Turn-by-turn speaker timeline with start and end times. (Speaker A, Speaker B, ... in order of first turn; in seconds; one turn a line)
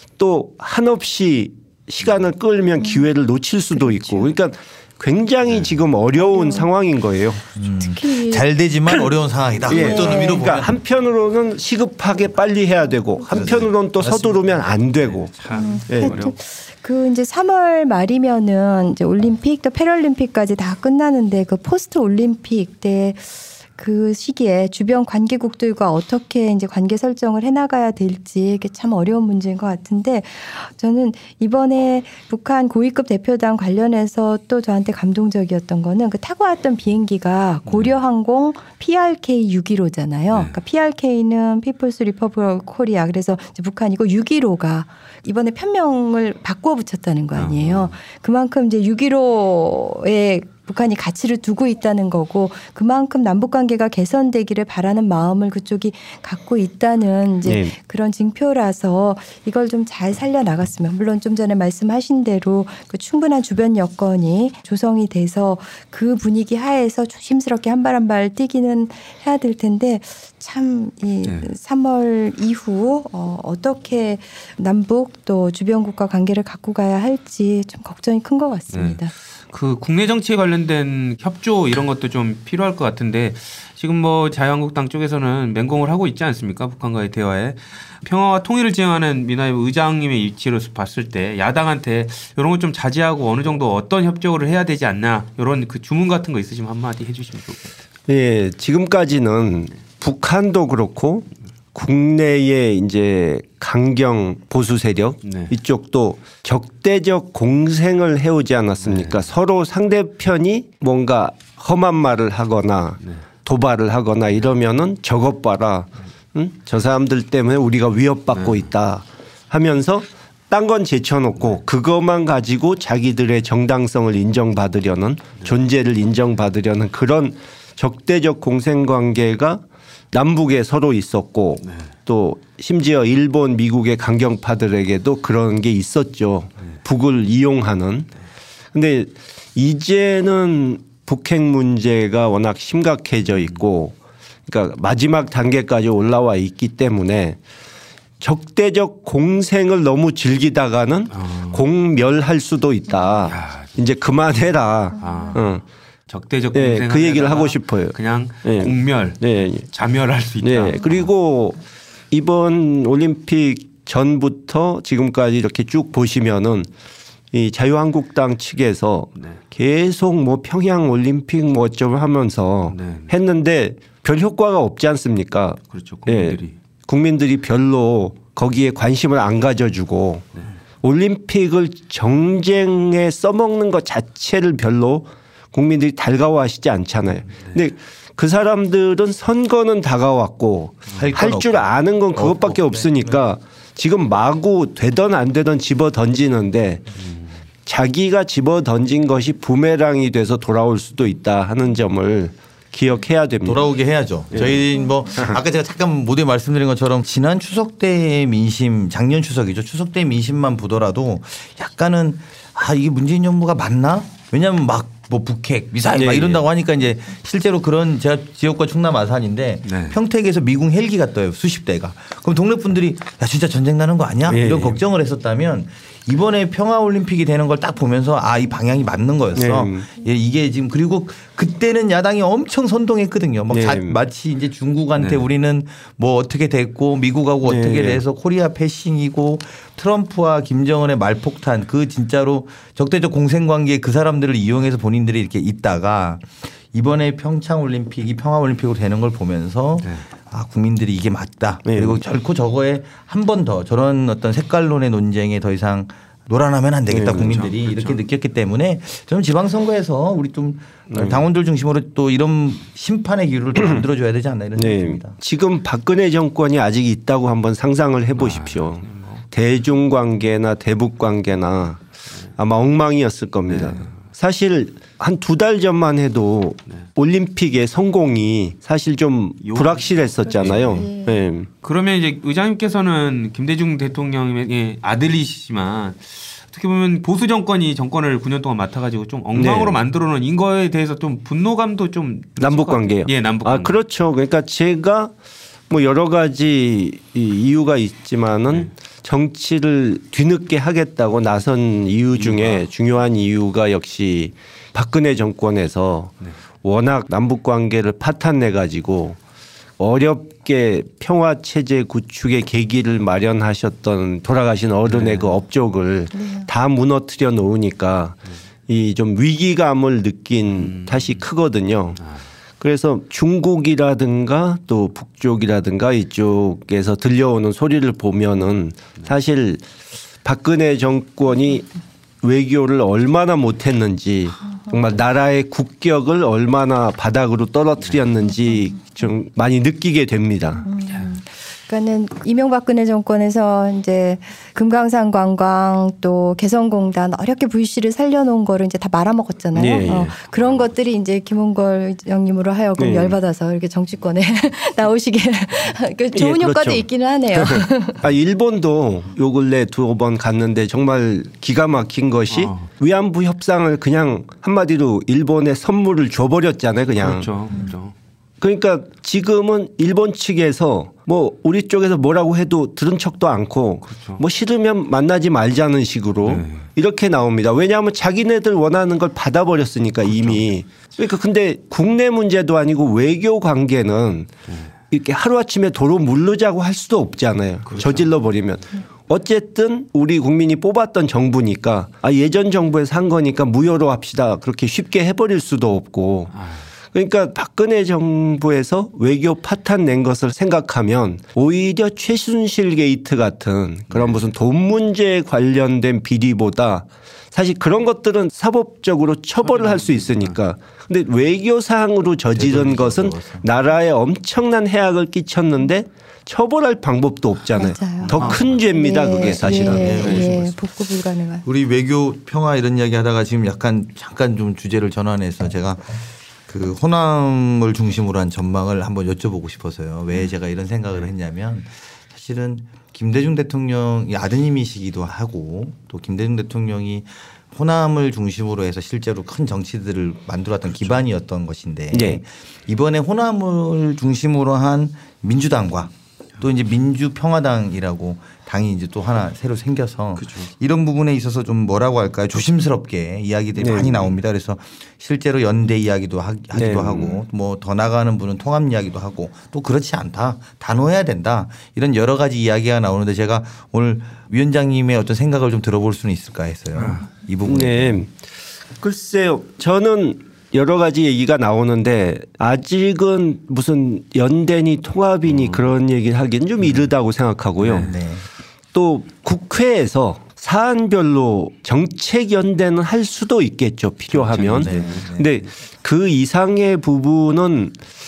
Speaker A: 0.2-7.4
Speaker B: 6.2-6.7
Speaker C: 7.6-10.8
Speaker B: 7.8-8.5
Speaker A: 9.7-15.3
Speaker B: 9.7-10.4
Speaker C: 13.3-14.4
Speaker D: 14.9-16.3
Speaker B: 15.5-79.1
Speaker A: 15.9-16.2
Speaker D: 37.7-37.9
Speaker D: 40.3-40.6
Speaker D: 47.4-47.9
Speaker A: 57.5-57.8
Speaker D: 71.2-71.5
Speaker D: 78.7-97.8
Speaker A: 98.1-138.1
Speaker D: 105.2-105.5
Speaker D: 108.8-109.3
Speaker D: 118.3-118.7
Speaker A: 138.7-143.9
Speaker A: 144.5-147.4
Speaker A: 148.2-155.6
Speaker D: 151.1-151.6
Speaker D: 153.2-153.8
Speaker D: 155.0-155.5
Speaker D: 156.1-161.1
Speaker A: 156.5-159.7
Speaker A: 160.4-161.6
Speaker A: 162.1-166.7
Speaker A: 167.3-180.3
Speaker D: 172.7-173.1
Speaker D: 175.7-176.6
Speaker A: 180.8-196.9
Speaker C: 191.0-193.2
Speaker A: 197.7-203.6
Speaker C: 203.4-265.2
Speaker A: 215.9-216.4
Speaker D: 219.7-220.0
Speaker A: 224.3-224.8
Speaker A: 229.3-229.9
Speaker A: 233.5-234.0
Speaker D: 235.0-235.2
Speaker A: 237.4-238.0
Speaker A: 251.7-252.0
Speaker A: 256.9-257.4
Speaker D: 257.1-258.0
Speaker A: 260.9-261.2
Speaker A: 263.6-263.8
Speaker A: 264.6-271.8
Speaker D: 268.2-269.2
Speaker A: 272.4-281.5
Speaker D: 273.5-273.9
Speaker D: 279.4-280.9
Speaker B: 280.3-281.2
Speaker D: 281.6-293.8
Speaker A: 289.3-289.8
Speaker A: 292.4-295.1
Speaker A: 295.7-309.2
Speaker D: 302.2-302.6
Speaker A: 309.8-322.0
Speaker D: 314.9-315.4
Speaker B: 316.1-316.5
Speaker D: 320.6-321.2
Speaker A: 322.6-329.7
Speaker A: 330.2-331.7
Speaker A: 332.2-340.7
Speaker B: 340.6-358.0
Speaker A: 349.6-350.1
Speaker D: 349.6-350.7
Speaker A: 352.8-353.2
Speaker A: 356.1-367.3
Speaker D: 362.3-362.7
Speaker D: 367.0-367.9
Speaker A: 368.4-384.3
Speaker D: 373.9-374.2
Speaker D: 376.3-376.7
Speaker D: 380.1-380.4
Speaker A: 384.9-396.3
Speaker D: 387.7-388.2
Speaker D: 396.4-396.6
Speaker A: 396.9-420.3
Speaker D: 409.4-410.4
Speaker C: 412.4-413.5
Speaker B: 417.6-418.2
Speaker D: 418.1-418.7
Speaker B: 418.7-421.5
Speaker C: 419.2-420.6
Speaker C: 421.4-468.0
Speaker A: 441.9-442.2
Speaker D: 450.2-450.5
Speaker A: 453.6-454.1
Speaker A: 456.5-457.2
Speaker A: 466.8-468.1
Speaker A: 468.8-477.9
Speaker D: 475.3-475.7
Speaker D: 477.6-477.9
Speaker C: 477.6-478.2
Speaker A: 478.7-487.8
Speaker D: 484.1-485.1
Speaker C: 484.3-485.3